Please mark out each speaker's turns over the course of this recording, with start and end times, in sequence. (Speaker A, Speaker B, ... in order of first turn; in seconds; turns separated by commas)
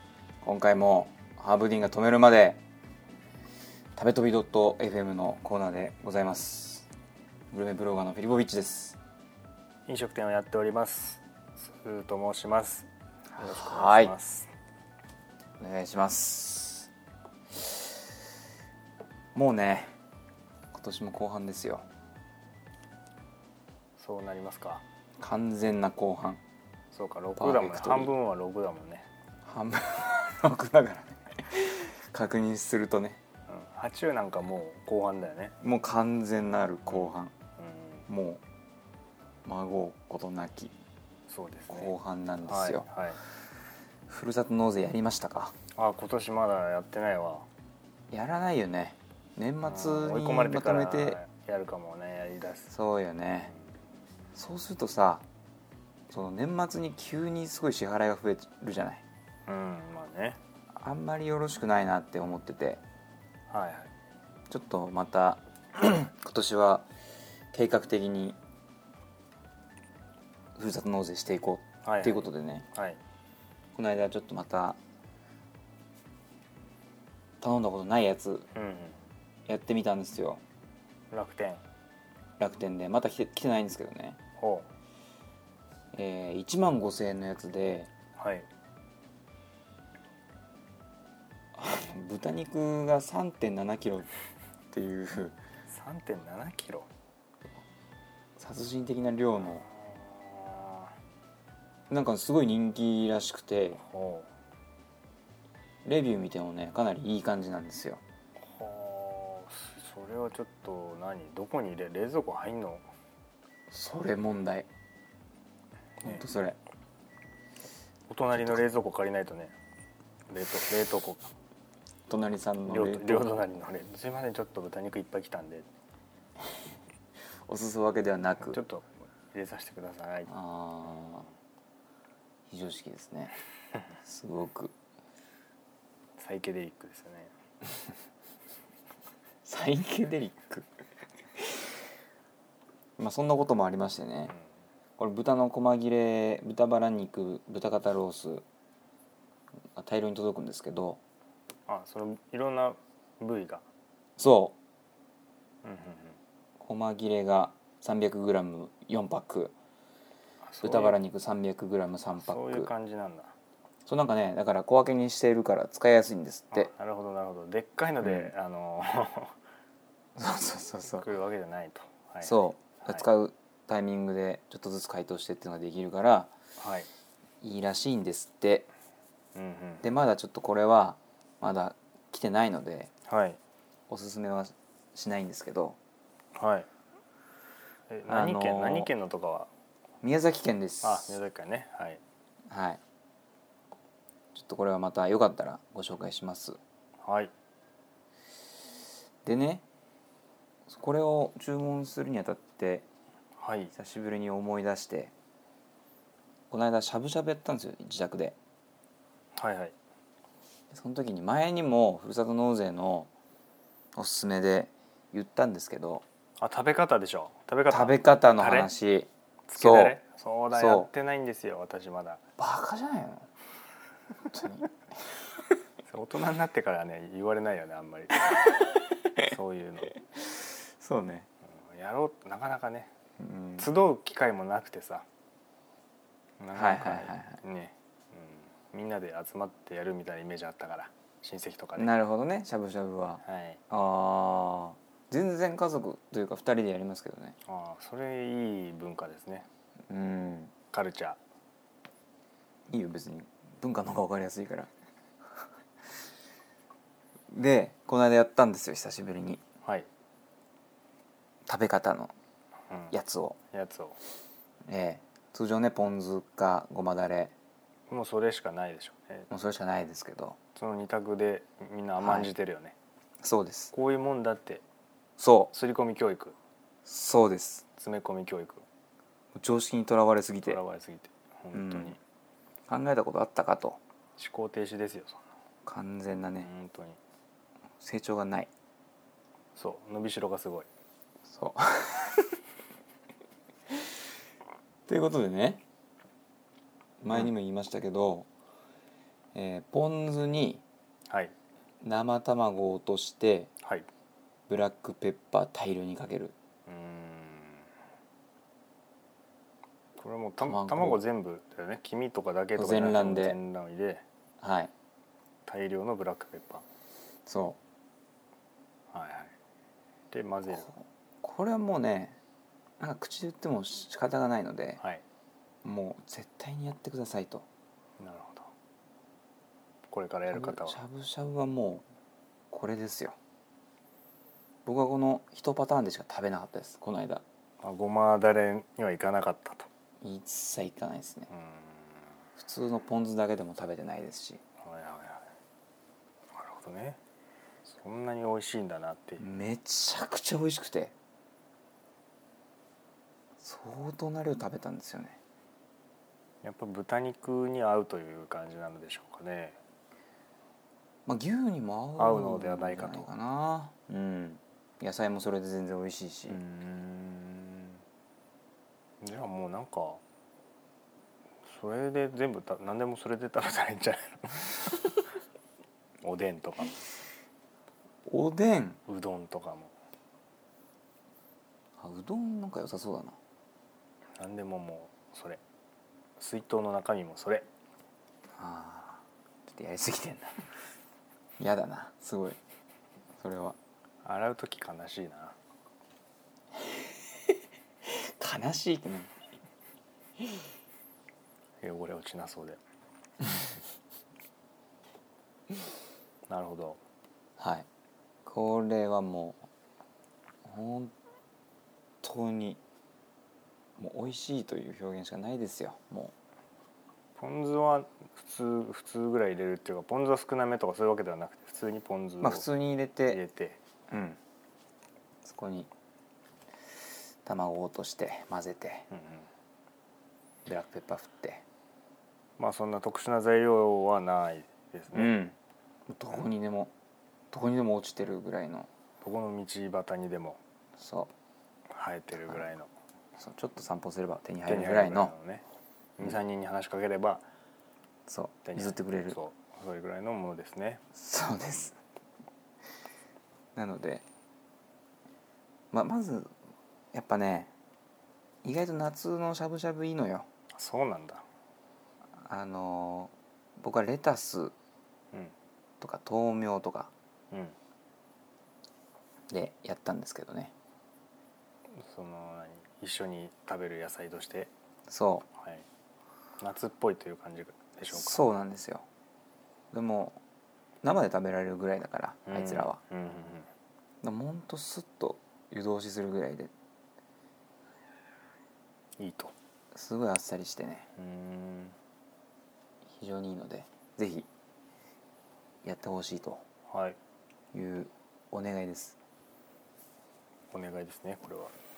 Speaker A: 0.4-2.6, Speaker A: 3.9-6.9, Speaker A: 7.5-9.0, Speaker B: 9.9-14.5, Speaker A: 13.3-14.1, Speaker A: 15.6-16.9, Speaker A: 19.3-19.9, Speaker A: 20.7-21.8, Speaker B: 24.0-24.8, Speaker A: 25.2-26.4, Speaker B: 26.9-29.1, Speaker A: 27.4-28.1, Speaker A: 29.4-33.2, Speaker B: 33.5-35.5, Speaker A: 35.6-37.3, Speaker B: 36.9-38.1, Speaker A: 38.1-38.4, Speaker A: 39.4-40.7, Speaker B: 41.3-41.9, Speaker A: 41.7-42.9, Speaker B: 42.5-43.2, Speaker A: 44.1-45.5, Speaker B: 45.7-47.5, Speaker A: 48.1-51.2, Speaker B: 49.6-52.7, Speaker A: 52.7-53.5, Speaker A: 54.3-55.2, Speaker A: 56.1-59.0, Speaker B: 59.5-60.4, Speaker A: 60.7-62.8, Speaker B: 63.5-63.9, Speaker A: 64.5-66.9, Speaker A: 67.5-68.4, Speaker A: 70.5-72.7, Speaker B: 71.8-73.0, Speaker A: 73.7-74.8, Speaker A: 77.4-78.5, Speaker B: 78.5-79.0, Speaker A: 79.5-80.4, Speaker B: 81.1-81.6, Speaker A: 82.4-84.2, Speaker B: 84.4-84.7, Speaker A: 85.9-87.9, Speaker B: 88.2-88.5, Speaker A: 91.5-94.1, Speaker A: 94.7-95.4, Speaker B: 95.7-96.9, Speaker A: 98.4-99.6, Speaker B: 99.4-100.9, Speaker A: 101.9-103.8, Speaker B: 103.8-104.3, Speaker A: 105.8-108.0, Speaker B: 108.4-112.9, Speaker A: 113.7-114.7, Speaker A: 116.0-116.6, Speaker B: 118.1-119.5, Speaker A: 118.3-118.6, Speaker B: 120.3-121.3, Speaker A: 122.1-123.3, Speaker B: 122.7-125.7, Speaker A: 127.5-128.6, Speaker B: 128.4-130.3, Speaker A: 130.3-131.3, Speaker A: 132.5-133.3, Speaker A: 134.0-134.7, Speaker B: 136.2-137.3, Speaker A: 139.4-140.7, Speaker A: 143.0-144.3, Speaker A: 145.0-148.4, Speaker A: 149.7-151.0, Speaker B: 151.7-153.6, Speaker A: 154.2-154.6, Speaker B: 155.6-156.2, Speaker A: 156.6-159.5, Speaker B: 160.4-161.0, Speaker A: 160.6-162.7, Speaker B: 162.1-163.3, Speaker A: 163.8-166.7, Speaker B: 166.5-169.3, Speaker A: 168.0-168.3, Speaker A: 170.2-171.1, Speaker B: 170.8-173.1, Speaker A: 172.2-176.3, Speaker B: 176.6-176.9, Speaker A: 177.4-178.7, Speaker B: 179.3-179.8, Speaker A: 179.8-182.9, Speaker B: 183.1-183.4, Speaker A: 183.9-185.8, Speaker B: 186.3-186.7, Speaker B: 187.9-189.5, Speaker A: 188.1-188.9, Speaker A: 190.0-191.2, Speaker B: 190.8-192.0, Speaker A: 192.5-192.8, Speaker A: 194.3-196.6, Speaker B: 197.0-197.3, Speaker A: 199.2-199.6, Speaker A: 200.7-202.9, Speaker B: 203.4-203.7, Speaker A: 203.7-205.1, Speaker A: 206.5-208.3, Speaker B: 209.3-209.8, Speaker A: 210.7-213.1, Speaker A: 213.9-216.0, Speaker B: 216.4-218.7, Speaker A: 217.7-220.0, Speaker B: 219.5-222.2, Speaker A: 220.5-220.9, Speaker A: 222.4-223.3, Speaker A: 224.3-224.7, Speaker B: 225.9-230.0, Speaker A: 230.2-231.3, Speaker B: 231.6-232.9, Speaker A: 233.2-233.7, Speaker B: 233.6-235.1, Speaker B: 236.4-241.9, Speaker A: 236.5-237.4, Speaker A: 241.8-247.3, Speaker B: 243.2-243.6, Speaker B: 247.4-249.5, Speaker A: 249.9-250.5, Speaker B: 250.7-251.2, Speaker A: 252.7-254.7, Speaker A: 257.3-259.4, Speaker A: 261.5-262.1, Speaker B: 262.7-262.9, Speaker A: 262.9-263.4, Speaker B: 263.5-264.0, Speaker A: 264.7-267.3, Speaker B: 267.9-269.3, Speaker A: 269.3-270.4, Speaker B: 270.5-272.7, Speaker A: 272.0-272.3, Speaker A: 273.2-273.7, Speaker B: 273.7-274.6, Speaker A: 275.2-275.5, Speaker B: 275.5-276.4, Speaker A: 276.9-277.6, Speaker B: 277.8-278.6, Speaker A: 279.3-280.6, Speaker B: 280.4-282.0, Speaker A: 281.5-281.9, Speaker A: 282.7-283.8, Speaker B: 284.2-285.2, Speaker A: 285.6-286.5, Speaker B: 286.4-287.0, Speaker A: 287.8-288.5, Speaker B: 289.6-290.7, Speaker A: 291.3-292.3, Speaker A: 294.9-295.6, Speaker A: 297.0-298.3, Speaker A: 299.3-300.6, Speaker B: 301.1-301.3, Speaker A: 301.8-303.5, Speaker B: 303.6-303.9, Speaker A: 304.5-306.3, Speaker B: 306.7-307.7, Speaker B: 310.0-314.0, Speaker A: 310.4-311.0, Speaker A: 312.5-313.4, Speaker A: 314.4-314.7, Speaker B: 315.5-316.6, Speaker A: 317.2-317.6, Speaker B: 318.9-319.3, Speaker B: 320.1-320.7, Speaker A: 320.5-322.2, Speaker A: 322.8-324.8, Speaker A: 325.6-327.4, Speaker B: 328.0-328.5, Speaker B: 329.9-330.8, Speaker A: 330.3-331.8, Speaker A: 332.5-333.2, Speaker A: 334.6-337.2, Speaker B: 337.6-339.7, Speaker A: 340.0-341.3, Speaker B: 341.3-342.2, Speaker A: 342.4-344.4, Speaker B: 344.6-345.3, Speaker B: 346.3-347.0, Speaker B: 347.6-349.2, Speaker A: 349.2-350.9, Speaker A: 353.4-355.2, Speaker B: 356.4-359.6, Speaker A: 361.1-366.4, Speaker B: 362.0-363.1, Speaker B: 366.3-367.8, Speaker B: 369.0-370.0, Speaker B: 371.5-374.9, Speaker B: 376.0-376.9, Speaker A: 378.1-378.8, Speaker B: 378.9-379.7, Speaker A: 381.8-383.1, Speaker B: 384.2-385.4, Speaker B: 386.2-387.4, Speaker A: 388.4-390.4, Speaker A: 391.4-392.4, Speaker A: 393.2-393.6, Speaker B: 394.0-395.4, Speaker A: 397.8-399.1, Speaker B: 401.6-402.6, Speaker B: 406.3-406.8, Speaker A: 407.4-407.7, Speaker A: 408.2-409.4, Speaker A: 410.4-410.9, Speaker A: 412.0-412.6, Speaker A: 413.8-416.1, Speaker B: 417.2-422.5, Speaker A: 422.2-423.2, Speaker B: 423.0-423.6, Speaker A: 423.9-424.2, Speaker A: 425.2-425.7, Speaker A: 427.2-428.9, Speaker B: 428.9-429.3, Speaker A: 430.4-431.4, Speaker B: 432.4-435.1, Speaker A: 434.9-435.4, Speaker A: 435.9-436.7, Speaker A: 437.3-438.7, Speaker B: 439.0-440.4, Speaker A: 440.8-441.1, Speaker B: 441.7-442.7, Speaker A: 443.2-445.1, Speaker B: 444.4-445.4, Speaker B: 446.0-447.2, Speaker A: 448.1-449.2, Speaker B: 448.4-450.8, Speaker A: 450.9-451.7, Speaker A: 453.5-454.1, Speaker A: 455.7-456.3, Speaker A: 456.9-457.5, Speaker A: 458.4-460.3, Speaker B: 460.5-461.2, Speaker A: 462.2-464.5, Speaker A: 465.8-466.9, Speaker B: 467.3-467.6, Speaker A: 469.3-470.5, Speaker B: 471.7-474.5, Speaker A: 474.9-475.3, Speaker B: 475.4-475.6, Speaker B: 476.4-478.3, Speaker A: 477.9-478.8, Speaker A: 479.7-480.2, Speaker A: 480.8-482.8, Speaker B: 482.2-483.5, Speaker A: 484.0-486.5, Speaker B: 489.0-489.3, Speaker A: 489.7-490.9, Speaker B: 490.9-491.8, Speaker A: 492.9-494.3, Speaker A: 495.6-496.4, Speaker B: 496.7-497.0, Speaker A: 497.5-498.9, Speaker B: 500.5-501.5